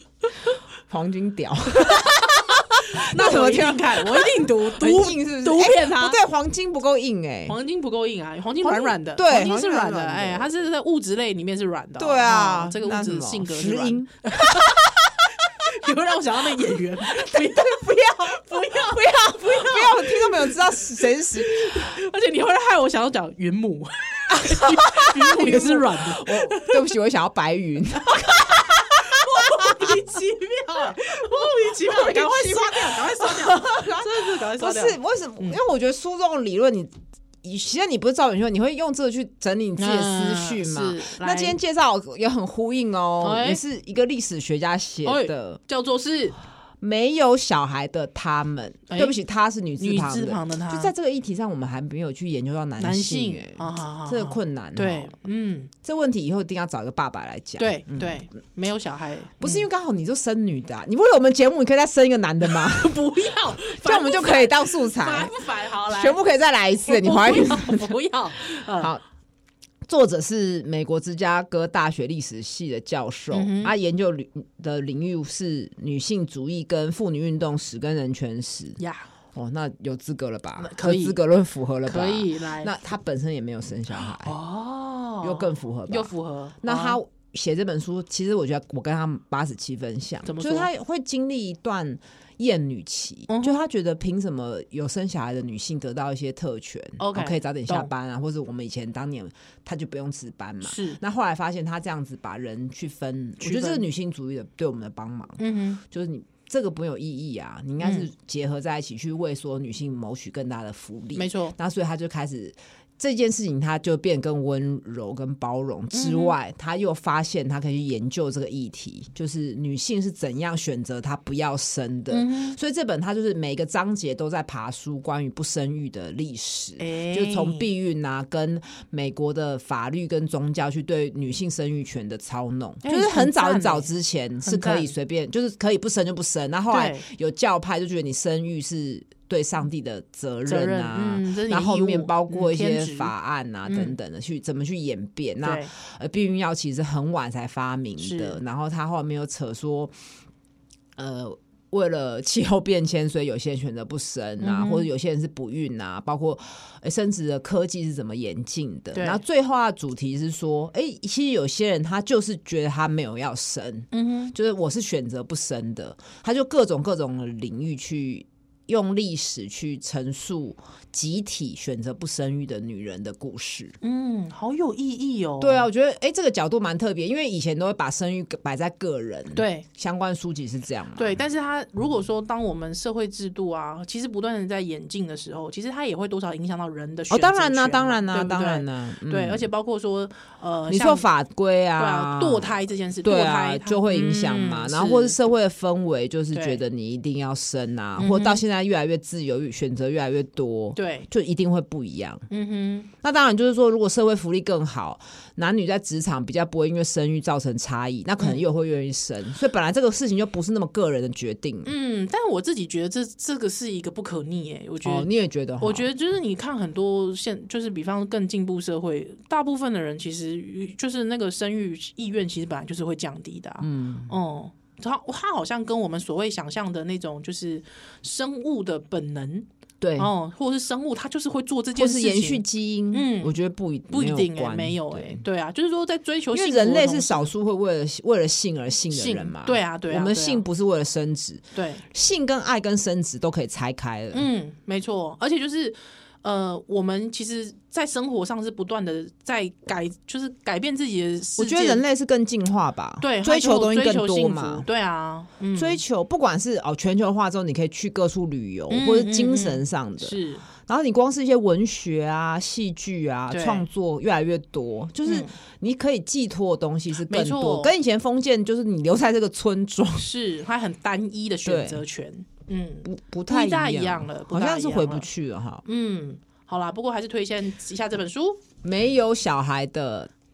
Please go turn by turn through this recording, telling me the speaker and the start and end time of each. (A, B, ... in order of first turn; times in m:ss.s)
0:00.9-0:07.6 A
0:01.8-0:06.2 B
0:07.5-0:14.9 B
0:08.6-0:10.5 A
0:12.0-0:15.7 A
0:15.6-0:26.9 B
0:17.0-0:21.9 A
0:24.3-0:30.0 A
0:28.0-0:35.6 B
0:31.4-0:36.9 A
0:37.4-0:45.6 A
0:39.8-0:41.6 B
0:43.2-0:43.6 B
0:45.0-0:46.4 B
0:46.8-0:55.2 A
0:48.9-0:49.2 B
0:49.8-0:50.9 B
0:52.8-0:55.7 B
0:55.8-0:58.2 A
0:57.6-0:59.7 B
0:59.4-1:03.0 A
1:02.4-1:06.2 B
1:03.7-1:08.0 A
1:06.8-1:08.9 B
1:08.8-1:09.0 A
1:09.9-1:18.8 A
1:13.3-1:13.8 B
1:18.8-1:19.1 B
1:19.3-1:24.4 A
1:20.6-1:21.2 B
1:21.8-1:22.8 B
1:23.9-1:27.0 B
1:25.2-2:30.0 A
1:30.2-1:30.7 B
1:33.3-1:33.6 B
1:37.0-1:37.9 B
1:40.6-1:41.0 B
1:43.4-1:43.9 B
1:45.4-1:45.8 B
1:47.8-1:48.1 B
1:51.2-1:51.6 B
1:55.9-1:56.4 B
2:02.1-2:02.6 B
2:06.8-2:07.7 B
2:12.8-2:13.9 B
2:14.4-2:14.9 B
2:16.7-2:17.1 B
2:20.5-2:23.1 B
2:23.7-2:24.0 B
2:25.4-2:25.7 B
2:28.0-2:28.4 B
2:31.0-2:53.8 A
2:34.4-2:34.9 B
2:38.9-2:39.2 B
2:43.9-2:44.4 B
2:53.8-2:55.7 B
2:55.4-3:01.2 A
2:59.3-2:59.7 B
3:01.0-3:11.0 B
3:07.1-3:09.5 A
3:10.7-3:22.2 A
3:11.8-3:15.2 B
3:16.3-3:16.6 B
3:18.0-3:18.4 B
3:20.8-3:21.1 B
3:22.3-3:22.9 B
3:23.0-3:31.7 A
3:31.6-3:35.1 B
3:34.8-3:35.9 A
3:35.6-3:53.4 B
3:43.6-3:44.2 A
3:49.8-3:50.1 A
3:51.8-3:55.2 A
3:53.9-3:57.3 B
3:56.3-4:04.3 A
3:58.9-4:00.4 B
4:01.6-4:01.9 B
4:04.1-4:11.8 B
4:11.4-4:14.7 A
4:13.0-4:15.8 B
4:15.6-4:30.1 A
4:18.7-4:20.4 B
4:23.3-4:23.7 B
4:25.0-4:25.4 B
4:27.1-4:27.7 B
4:30.0-4:35.1 B
4:31.4-4:31.8 A
4:32.8-4:35.6 A
4:35.7-4:38.4 B
4:38.6-4:40.1 A